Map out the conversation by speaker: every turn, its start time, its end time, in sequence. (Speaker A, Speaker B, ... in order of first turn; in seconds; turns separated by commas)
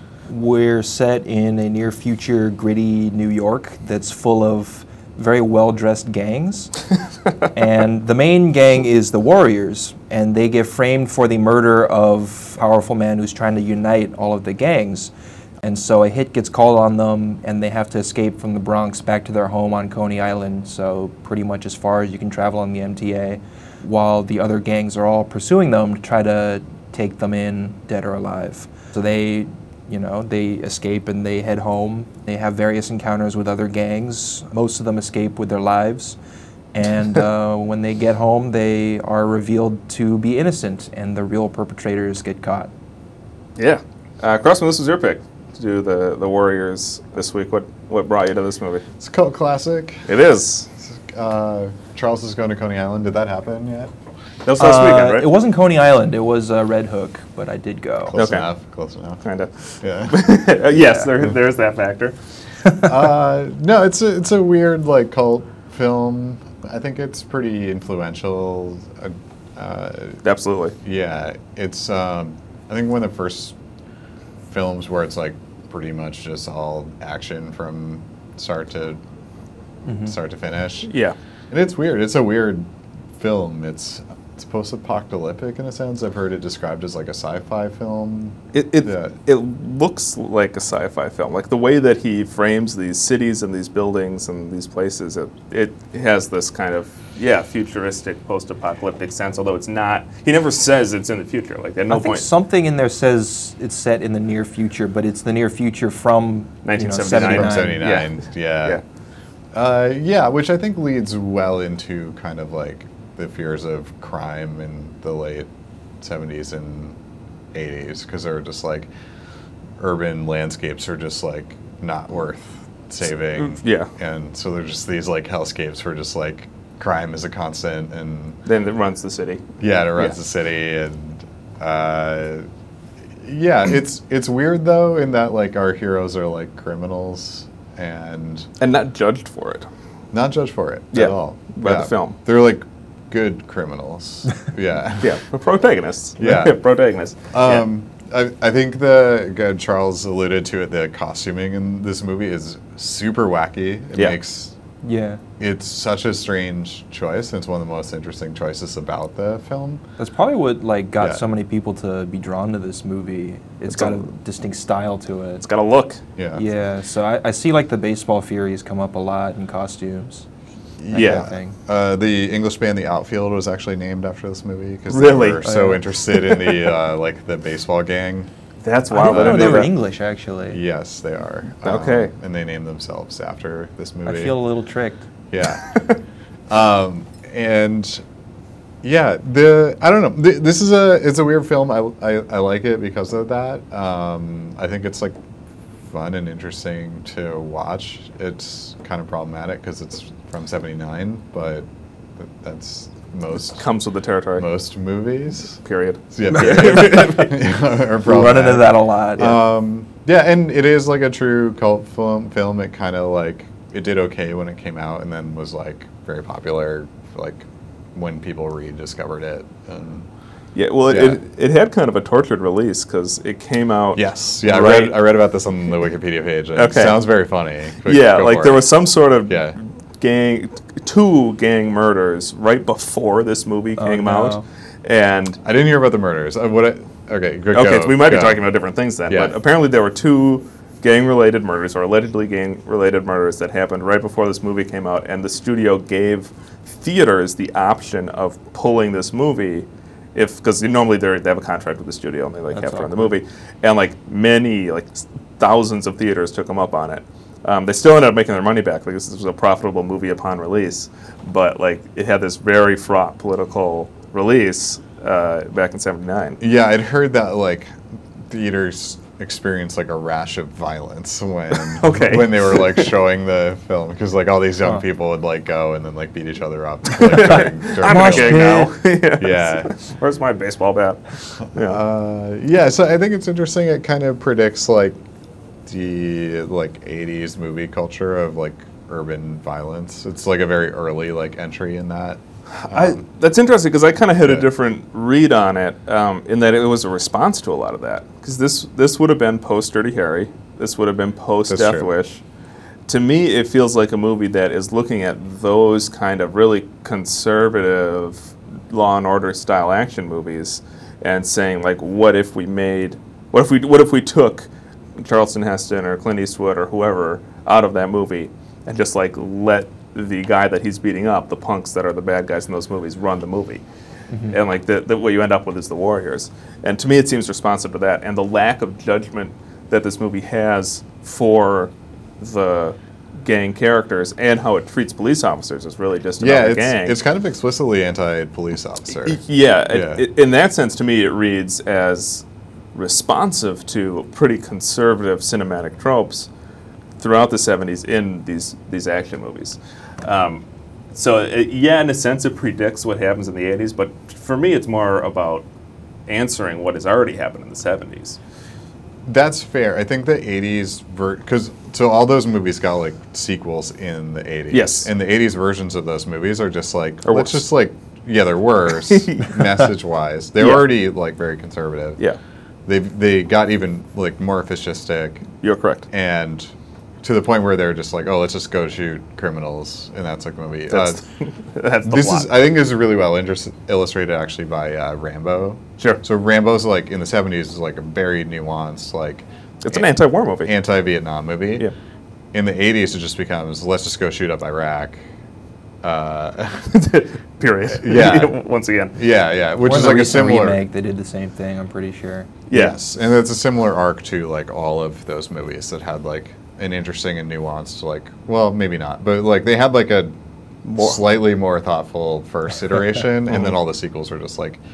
Speaker A: 0.3-6.7, Speaker A: 7.5-36.2, Speaker A: 36.7-42.7, Speaker B: 43.6-48.9, Speaker C: 49.0-50.0, Speaker B: 50.1-50.7, Speaker C: 50.8-53.9, Speaker B: 54.5-55.3, Speaker A: 54.6-58.2, Speaker C: 58.1-59.2, Speaker B: 58.1-58.5, Speaker B: 59.2-62.2, Speaker C: 59.8-60.2, Speaker C: 62.8-70.2, Speaker B: 70.2-70.8, Speaker C: 70.8-73.6, Speaker C: 74.5-79.0, Speaker C: 80.0-80.9, Speaker B: 80.9-81.2, Speaker C: 81.5-89.2, Speaker B: 88.5-102.3, Speaker A: 101.9-107.8, Speaker B: 106.6-108.8, Speaker C: 107.1-108.8, Speaker C: 109.5-115.5, Speaker C: 116.0-117.0, Speaker C: 117.5-118.9, Speaker C: 119.8-128.4, Speaker B: 123.4-123.9, Speaker B: 128.5-130.1, Speaker C: 129.6-132.5, Speaker C: 133.2-138.5, Speaker B: 138.6-139.7, Speaker C: 140.1-145.2, Speaker B: 140.9-142.2, Speaker B: 145.0-147.7, Speaker C: 146.2-146.6, Speaker C: 147.3-154.6, Speaker A: 154.8-155.2, Speaker C: 155.4-159.8, Speaker A: 160.0-165.4, Speaker B: 163.7-164.1, Speaker B: 165.4-166.0, Speaker C: 166.2-166.4, Speaker A: 166.3-170.3, Speaker C: 170.8-178.3, Speaker A: 170.9-171.6, Speaker B: 170.9-171.2, Speaker B: 174.9-175.4, Speaker A: 175.4-175.8, Speaker B: 176.1-176.7, Speaker B: 178.6-179.7, Speaker A: 178.9-180.6, Speaker C: 179.1-179.7, Speaker C: 180.5-184.4, Speaker B: 181.6-182.1, Speaker A: 184.1-185.1, Speaker C: 185.3-185.9, Speaker C: 186.5-188.0, Speaker C: 188.8-195.2, Speaker C: 195.9-203.7, Speaker B: 203.6-204.5, Speaker C: 204.4-205.6, Speaker B: 205.6-207.3, Speaker C: 206.1-220.1, Speaker A: 208.0-209.4, Speaker B: 220.6-225.0, Speaker C: 220.9-221.2, Speaker C: 223.9-228.7, Speaker B: 226.6-227.0, Speaker B: 227.8-235.4, Speaker C: 229.3-229.6, Speaker A: 233.8-234.4, Speaker C: 235.4-238.4, Speaker B: 237.5-266.4, Speaker C: 239.1-239.3, Speaker A: 252.5-253.1, Speaker C: 266.4-267.8, Speaker C: 268.3-278.6, Speaker B: 271.6-272.9, Speaker B: 276.9-281.8, Speaker A: 277.1-278.7, Speaker C: 279.2-279.7, Speaker C: 281.6-285.0, Speaker C: 285.7-293.0, Speaker B: 292.6-302.2, Speaker C: 301.5-301.9, Speaker B: 302.9-323.6, Speaker B: 324.3-337.0, Speaker C: 336.2-340.0, Speaker B: 339.0-342.2, Speaker B: 342.8-346.3, Speaker B: 347.0-355.5, Speaker B: 356.1-358.2, Speaker C: 359.1-372.0, Speaker B: 364.5-364.9, Speaker B: 367.1-367.4, Speaker B: 368.8-369.7, Speaker B: 370.4-370.7, Speaker C: 372.7-375.3, Speaker B: 375.4-375.9, Speaker C: 375.9-376.5, Speaker C: 377.0-381.0, Speaker B: 380.7-382.3, Speaker C: 381.9-391.7, Speaker B: 389.6-390.5, Speaker C: 392.3-395.0, Speaker C: 395.8-396.7, Speaker B: 396.7-398.9, Speaker C: 397.7-398.3, Speaker C: 398.9-400.6, Speaker A: 399.6-402.3, Speaker B: 402.5-402.9, Speaker C: 402.5-410.1, Speaker B: 410.6-411.0, Speaker C: 410.8-414.6